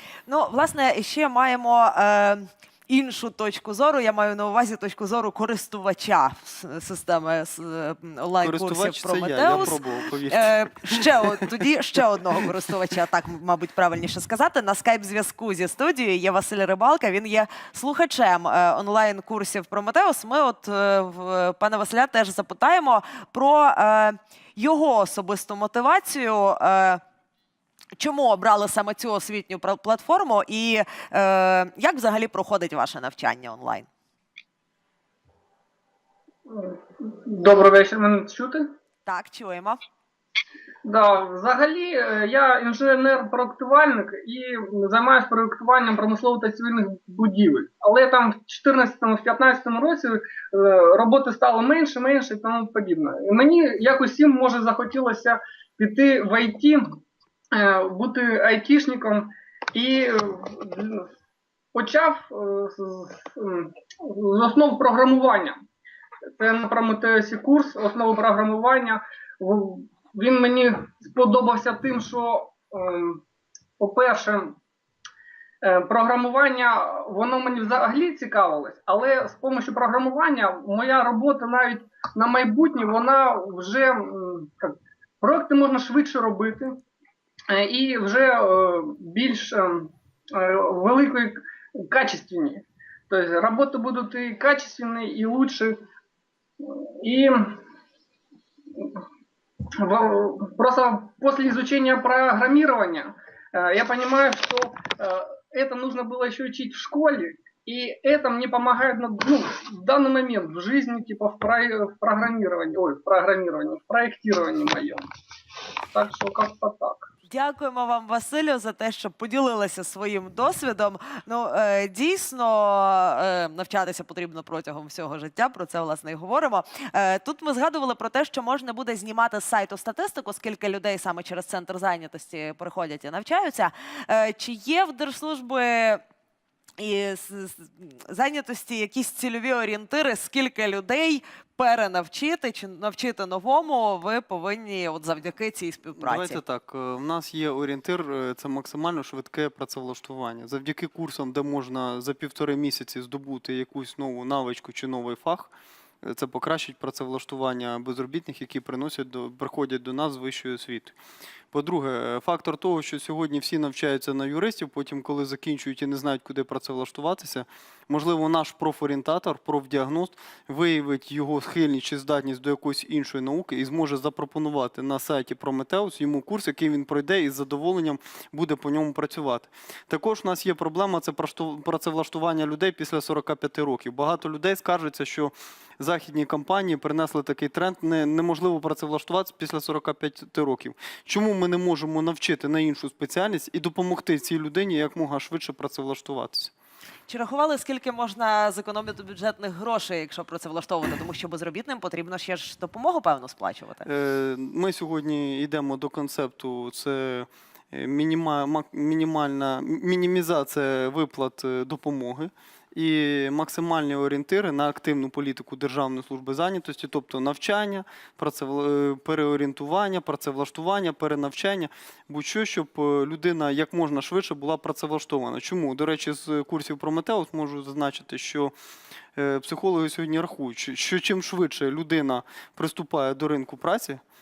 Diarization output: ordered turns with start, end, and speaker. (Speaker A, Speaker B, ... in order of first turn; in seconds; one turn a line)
Speaker A: 0.3-9.8
Speaker B: 8.4-11.1
Speaker A: 10.3-27.0
Speaker A: 28.0-33.9
Speaker C: 36.5-38.7
Speaker A: 39.1-39.8
Speaker C: 40.8-57.0
Speaker C: 57.5-61.1
Speaker C: 61.7-65.6
Speaker C: 66.4-73.2
Speaker C: 73.8-74.6
Speaker C: 75.6-86.8
Speaker C: 87.5-95.8
Speaker C: 96.6-97.6
Speaker C: 98.8-99.0
Speaker C: 99.8-115.0
Speaker C: 115.9-117.1
Speaker A: 117.3-136.0
Speaker A: 136.8-146.4
Speaker B: 146.0-161.0
Speaker B: 161.5-196.5
Speaker A: 197.1-203.9
Speaker B: 203.8-228.5
Speaker B: 229.2-234.0